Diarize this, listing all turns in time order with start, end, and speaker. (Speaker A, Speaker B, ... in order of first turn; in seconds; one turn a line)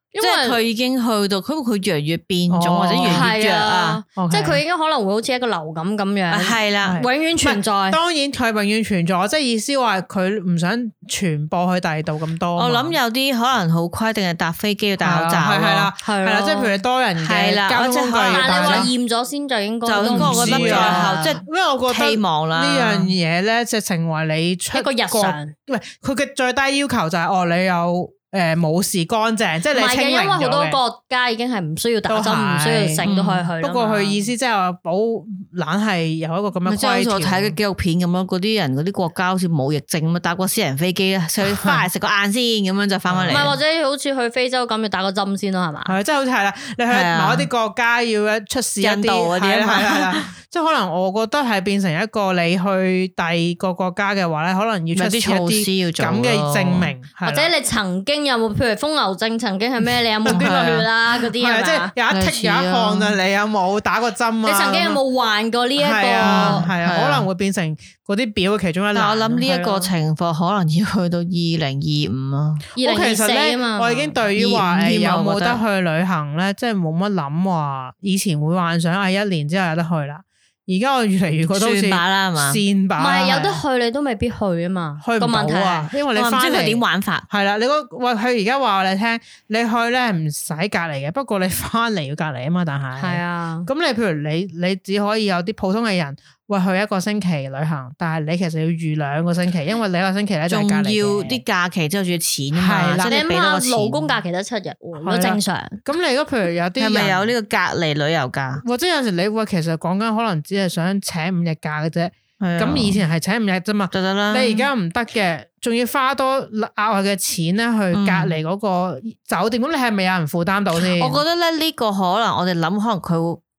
Speaker A: 0.1-0.6
Speaker B: 0.2-4.0
Speaker C: 2.5-3.3
Speaker A: 3.0-8.0
Speaker C: 4.2-4.6
Speaker B: 6.3-7.0
Speaker C: 6.8-13.0
Speaker B: 12.6-15.9
Speaker C: 15.0-18.9
Speaker A: 16.0-16.8
Speaker B: 17.2-18.9
Speaker A: 18.3-21.4
Speaker B: 19.9-23.1
Speaker C: 20.0-30.8
Speaker A: 24.7-25.5
Speaker A: 29.7-34.3
Speaker C: 32.1-33.0
Speaker B: 33.0-33.5
Speaker C: 33.6-37.6
Speaker B: 36.6-43.6
Speaker C: 41.4-41.8
Speaker C: 43.1-43.5
Speaker A: 43.3-45.9
Speaker C: 45.9-57.5
Speaker B: 46.9-47.5
Speaker B: 48.8-50.3
Speaker B: 54.9-56.9
Speaker A: 57.2-61.9
Speaker C: 60.2-65.0
Speaker B: 60.3-60.9
Speaker B: 62.1-63.2
Speaker A: 64.4-66.7
Speaker C: 65.8-69.9
Speaker B: 66.2-67.3
Speaker B: 68.9-72.7
Speaker A: 72.8-74.2
Speaker C: 72.8-83.6
Speaker B: 74.3-75.6
Speaker B: 81.5-82.6
Speaker A: 83.0-85.9
Speaker C: 85.0-101.4
Speaker B: 86.1-87.2
Speaker A: 93.0-93.7
Speaker B: 100.5-104.1
Speaker C: 102.5-103.2
Speaker A: 103.1-105.8
Speaker C: 105.0-107.3
Speaker B: 106.8-108.6
Speaker C: 108.6-121.2
Speaker B: 112.4-113.0
Speaker B: 113.9-114.7
Speaker B: 117.9-118.3
Speaker B: 120.7-123.4